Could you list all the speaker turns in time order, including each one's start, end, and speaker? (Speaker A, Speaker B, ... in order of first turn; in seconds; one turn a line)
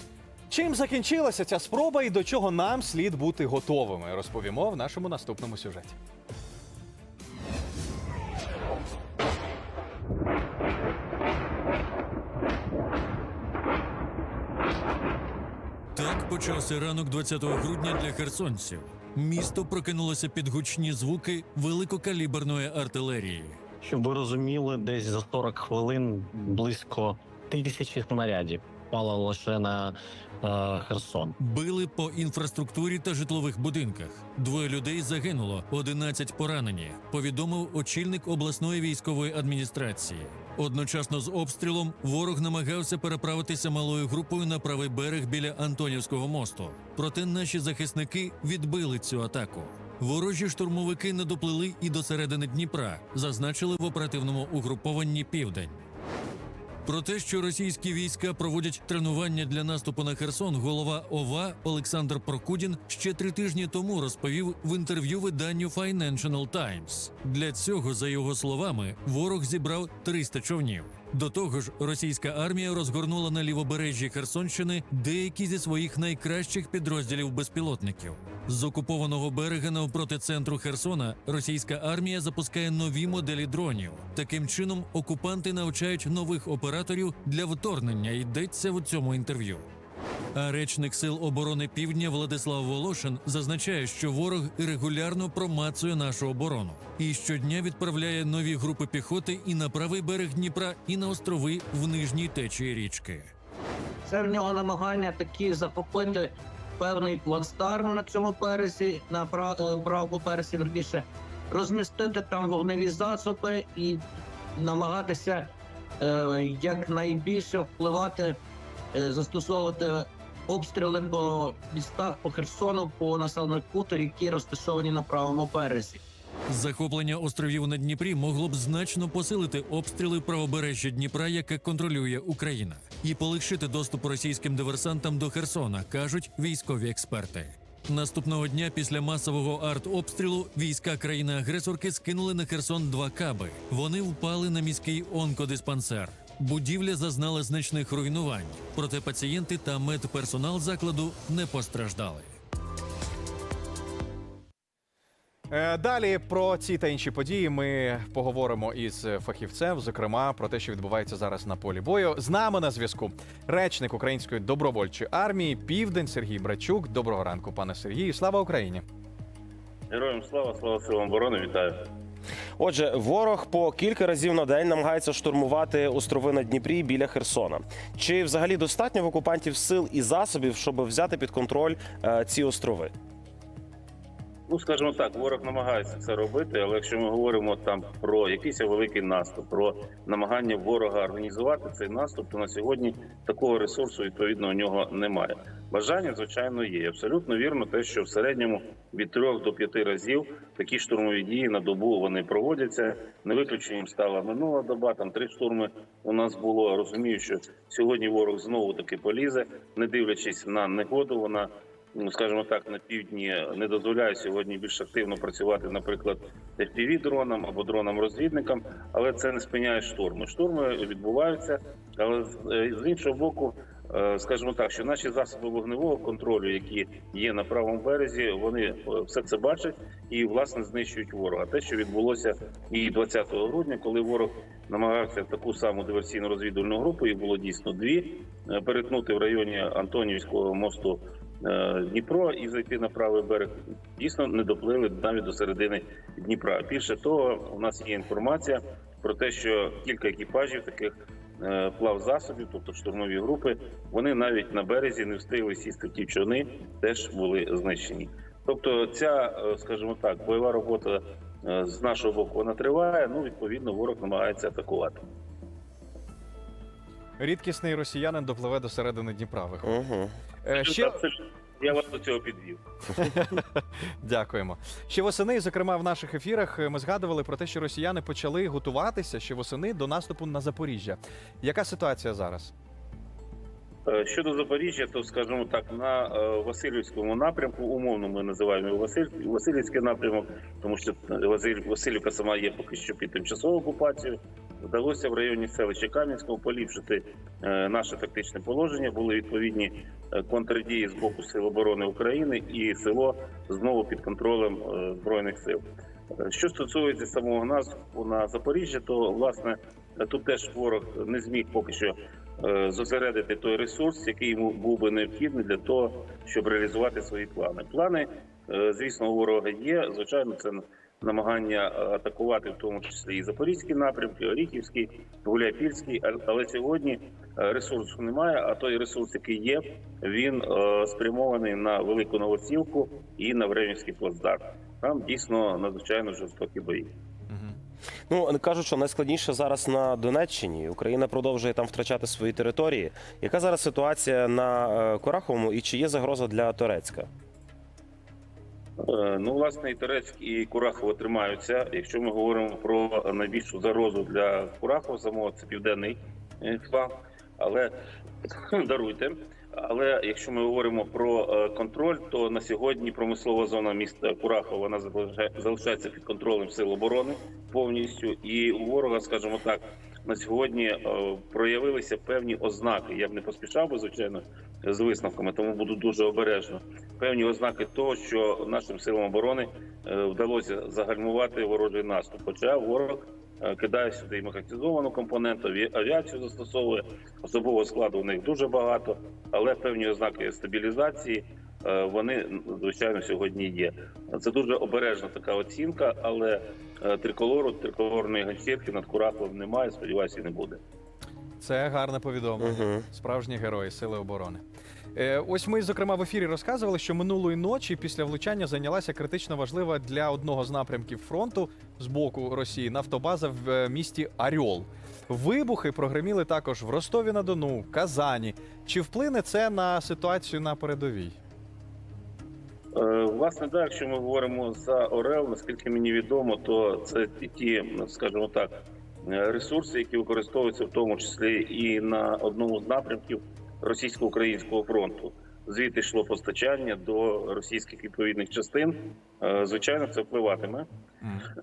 Speaker A: 0.5-6.0
Speaker B: 15.9-23.6
Speaker C: 23.8-31.4
Speaker B: 31.4-55.8
Speaker B: 56.9-89.7
Speaker B: 90.3-103.3
Speaker D: 104.0-114.0
Speaker D: 114.6-118.4
Speaker D: 118.9-126.0
Speaker B: 126.5-152.3
Speaker A: 155.5-168.8
Speaker E: 169.9-171.9
Speaker F: 172.6-182.9
Speaker E: 184.5-265.0
Speaker A: 267.2-269.8
Speaker F: 269.6-270.1
Speaker A: 270.4-271.0
Speaker E: 270.6-272.6
Speaker A: 273.0-282.5
Speaker E: 283.9-305.6
Speaker E: 306.2-336.9
Speaker A: 337.3-337.6
Speaker F: 338.1-347.1
Speaker E: 348.8-357.7
Speaker E: 358.2-400.6
Speaker A: 401.4-404.4
Speaker F: 402.4-402.8
Speaker A: 404.9-421.2
Speaker E: 422.8-428.5
Speaker E: 429.1-440.7
Speaker A: 441.0-441.3